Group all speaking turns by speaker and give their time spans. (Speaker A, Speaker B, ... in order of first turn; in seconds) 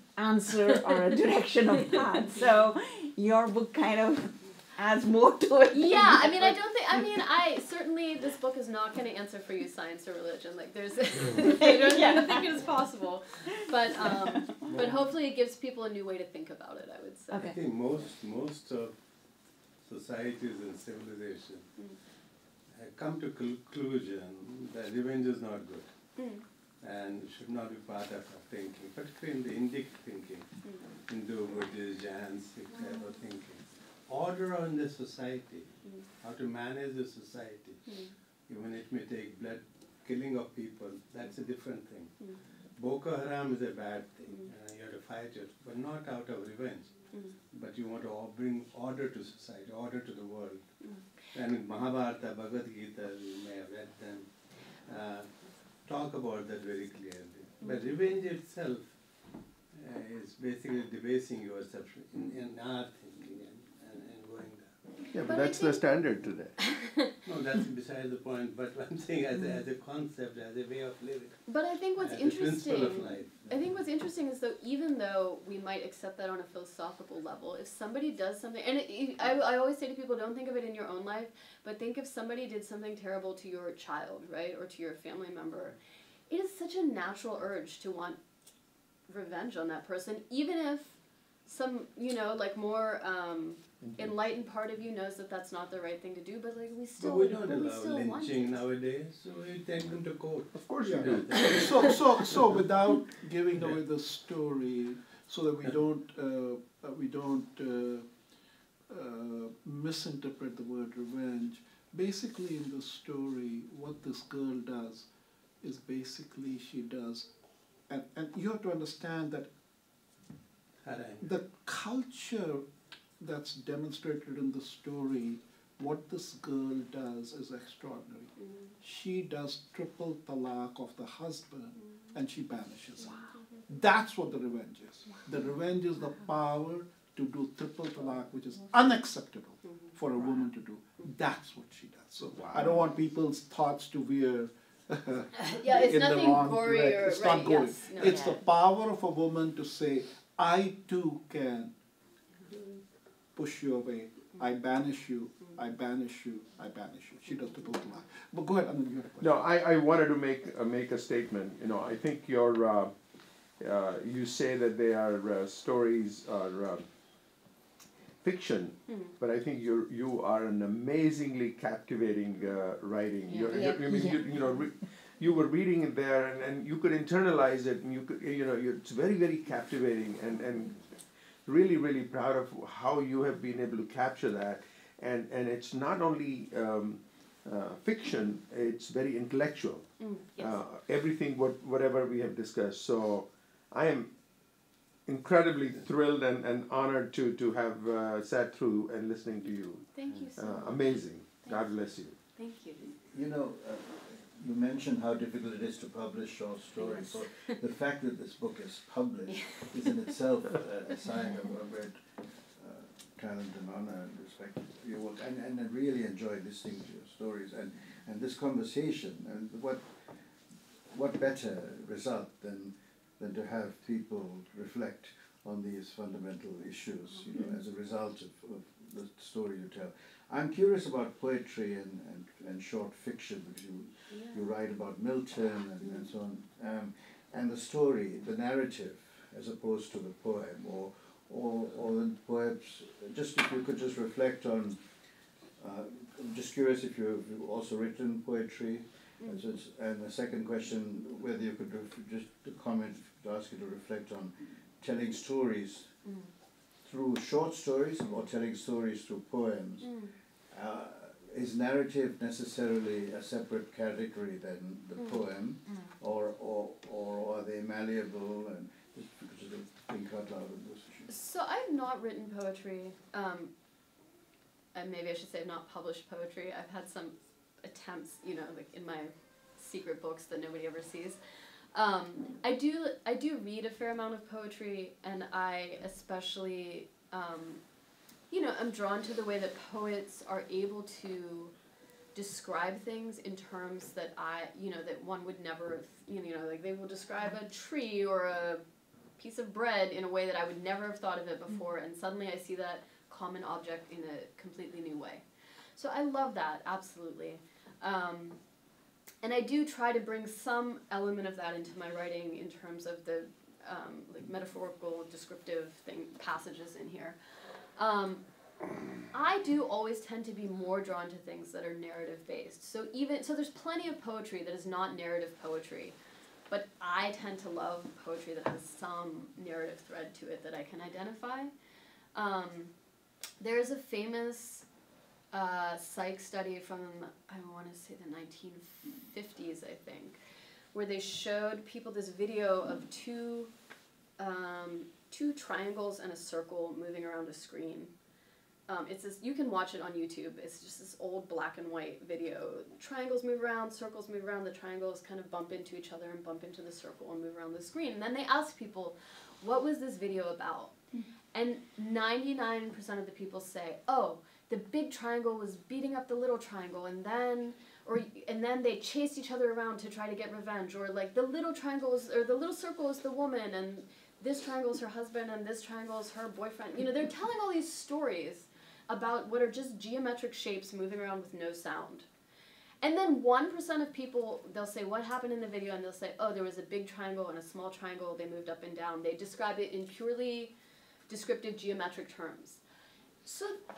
Speaker A: 0.1-7.0, 11.4-12.5, 14.0-14.6, 148.0-148.4, 173.3-174.6
Speaker B: 5.7-17.5, 26.1-26.4, 30.6-30.9, 32.7-33.1, 37.9-38.1, 65.2-65.9, 66.6-67.1, 71.5-85.8, 86.3-88.2, 89.1-98.6, 139.6-139.9, 145.5-148.2, 168.9-169.1, 173.3-173.7, 190.0-190.6, 199.9-202.9, 206.8-207.6, 209.3-209.6, 234.1-234.4, 235.8-236.1, 249.2-249.5, 256.0-256.3, 259.8-260.1, 265.0-265.2, 271.1-273.5, 274.7-281.2, 281.7-287.6, 288.3-291.5, 292.1-298.6, 299.2-305.2, 305.8-308.4, 309.2-317.2, 317.8-318.2, 319.1-325.9, 326.5-331.5, 332.1-332.7, 333.4-334.6, 335.3-340.2, 340.7-343.5, 344.2-347.9, 348.7-360.8, 361.3-382.1, 382.8-390.5, 391.1-392.6, 393.2-393.6
Speaker C: 14.7-15.0, 17.4-18.9, 19.8-21.7, 22.7-25.9, 26.8-30.5, 31.0-37.9, 38.5-42.2, 42.8-46.9, 47.5-50.6, 51.3-55.3, 55.8-58.9, 59.7-64.8, 67.2-71.4, 72.0-73.4, 97.0-101.9, 120.8-121.3
Speaker D: 65.1-66.6, 100.5-101.6, 142.4-142.8, 159.2-162.9, 163.6-166.8, 168.2-180.9, 181.4-194.1, 195.1-202.2
Speaker E: 100.8-108.1, 108.9-115.1, 115.6-117.3, 117.9-119.5, 121.2-122.7, 123.2-151.7, 153.3-159.4
Speaker F: 203.1-212.0, 212.5-219.9, 220.9-244.8, 245.6-255.9, 256.8-259.9, 260.5-271.1